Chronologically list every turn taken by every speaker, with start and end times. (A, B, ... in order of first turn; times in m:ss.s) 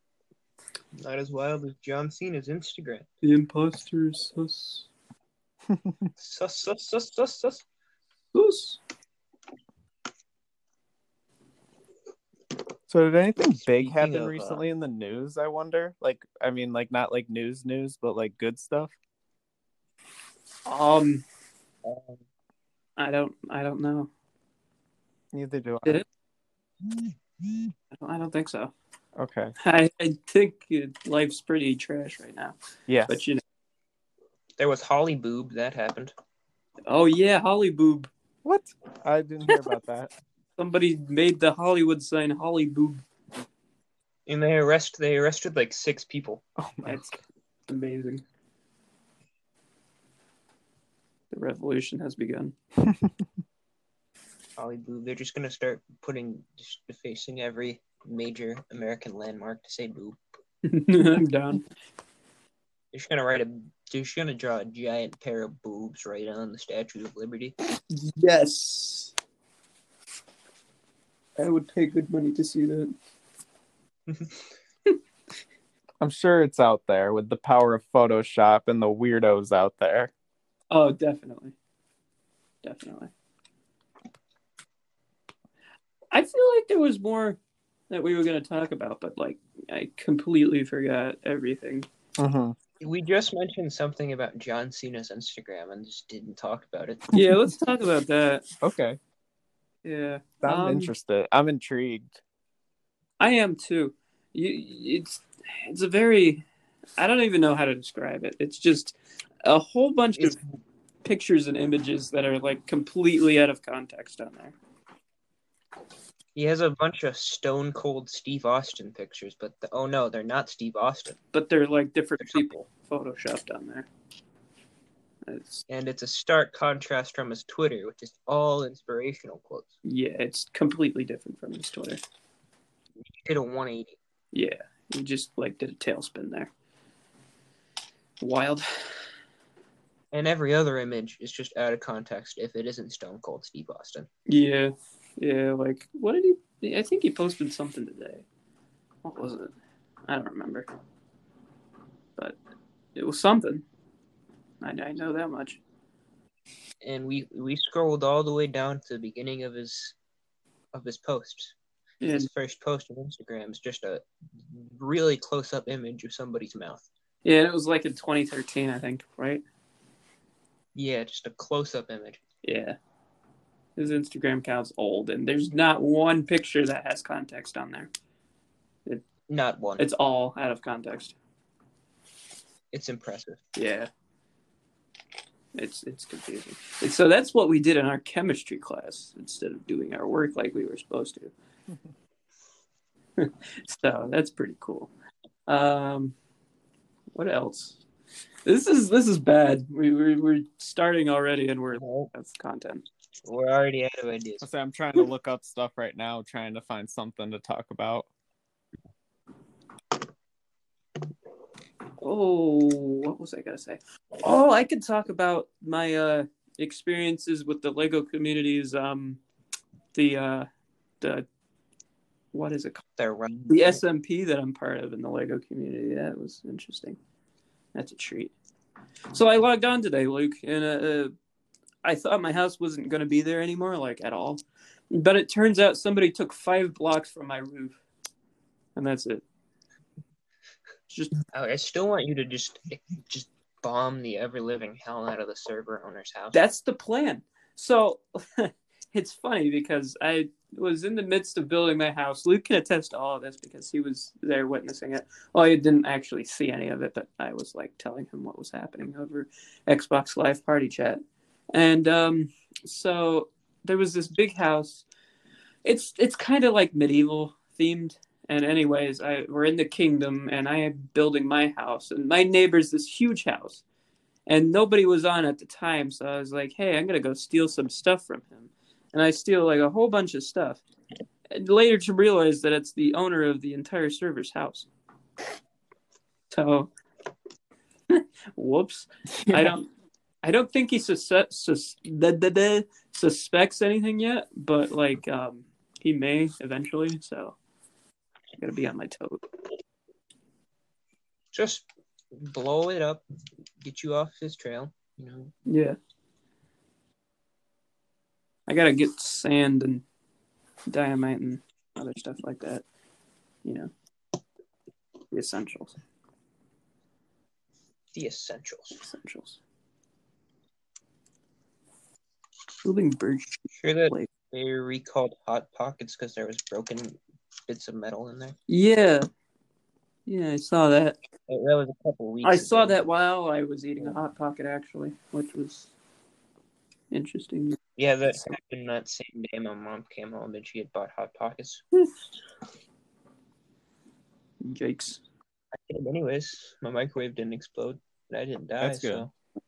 0:01.0-0:03.1 A
0:03.2-0:04.9 B
0:05.7-0:06.1 C
0:06.2-0:07.6 A
0:08.3-0:08.8 B
0:12.9-0:18.9 C
0:13.4-0:14.6 A
0:20.7-0:21.2 B
0:21.8-0:22.2 A
0:23.0-0:24.1 B
0:25.3-0:26.0 C
0:26.9-0:27.7 C
0:27.9-0:28.7 B
0:29.2-0:29.5 C
0:29.6-0:32.6 B
0:32.9-0:33.2 C
0:33.1-0:33.4 B
0:34.6-0:36.1 A
0:36.9-0:38.1 B
0:38.4-0:40.1 C
0:40.6-0:43.0 B
0:44.3-0:46.4 A
0:46.6-0:47.2 C
0:46.8-0:48.2 B
0:51.3-0:52.6 B
0:52.8-0:53.1 C
0:54.6-1:00.2 A
1:00.6-1:01.6 B
1:02.9-1:07.6 A
1:07.9-1:09.1 B
1:11.4-1:13.0 B
1:14.1-1:14.3 A
1:16.0-1:20.1 C
1:20.7-1:21.6 B
1:22.6-1:23.1 B
1:26.1-1:27.4 B
1:27.9-1:31.9 B
1:32.2-1:32.6 C
1:32.8-1:37.1 A
1:37.1-1:38.4 B
1:38.6-1:39.0 C
1:39.8-1:40.9 B
1:40.4-1:42.2 C
1:43.2-1:46.4 B
1:47.0-1:50.4 B
1:51.0-1:54.6 B
1:56.4-2:01.2 A
2:01.3-2:03.9 B
2:02.2-2:02.6 A
2:05.2-2:05.7 B
2:05.7-2:09.8 A
2:09.8-2:12.0 B
2:13.2-2:14.0 A
2:14.3-2:16.5 B
2:18.2-2:18.9 B
2:20.1-2:24.1 A
2:24.3-2:28.2 B
2:29.0-2:29.5 B
2:30.1-2:30.7 B
2:33.0-2:33.6 B
2:34.6-2:35.6 B
2:36.8-2:40.0 A
2:40.7-2:41.5 A
2:42.0-2:42.3 B
2:42.1-2:46.9 A
2:47.2-2:49.4 B
2:50.8-2:52.2 A
2:52.4-2:52.8 B
2:53.8-2:57.9 B
2:59.3-2:59.8 A
2:59.8-3:01.2 B
3:02.7-3:03.4 A
3:03.6-3:03.9 B
3:05.6-3:11.3 B
3:13.2-3:14.9 B
3:15.5-3:16.2 B
3:17.1-3:17.8 B
3:18.5-3:22.9 B
3:21.7-3:22.1 A
3:23.2-3:24.5 A
3:24.4-3:28.1 C
3:32.0-3:39.2 B
3:39.9-3:40.5 B
3:41.0-3:41.3 B
3:42.3-3:42.8 B
3:43.0-3:43.8 A
3:43.5-3:47.0 B
3:47.8-3:48.3 B
3:49.1-3:51.2 B
3:51.8-3:57.8 B
3:58.8-3:59.2 B
4:00.9-4:01.2 B
4:01.3-4:06.4 A
4:06.3-4:21.0 B
4:21.5-4:24.8 B
4:25.6-4:33.6 B
4:34.3-4:40.6 B
4:41.3-4:44.7 B
4:46.3-4:46.7 B
4:47.9-4:49.7 B
4:49.2-4:49.5 C
4:50.2-4:57.4 B
4:58.4-4:59.3 B
5:01.3-5:03.0 A
5:03.6-5:05.3 A
5:05.5-5:05.8 B
5:08.5-5:09.8 B
5:10.7-5:12.6 B
5:13.4-5:13.7 B
5:15.1-5:15.8 B
5:17.9-5:18.8 A
5:18.8-5:19.4 B
5:22.6-5:24.1 B
5:23.6-5:28.4 A
5:28.5-5:29.1 B
5:30.1-5:31.0 B
5:31.3-5:32.8 A
5:32.2-5:35.7 B
5:36.9-5:37.6 B
5:37.8-5:41.6 A
5:44.4-5:45.0 B
5:45.5-5:49.1 A
5:48.6-5:49.1 C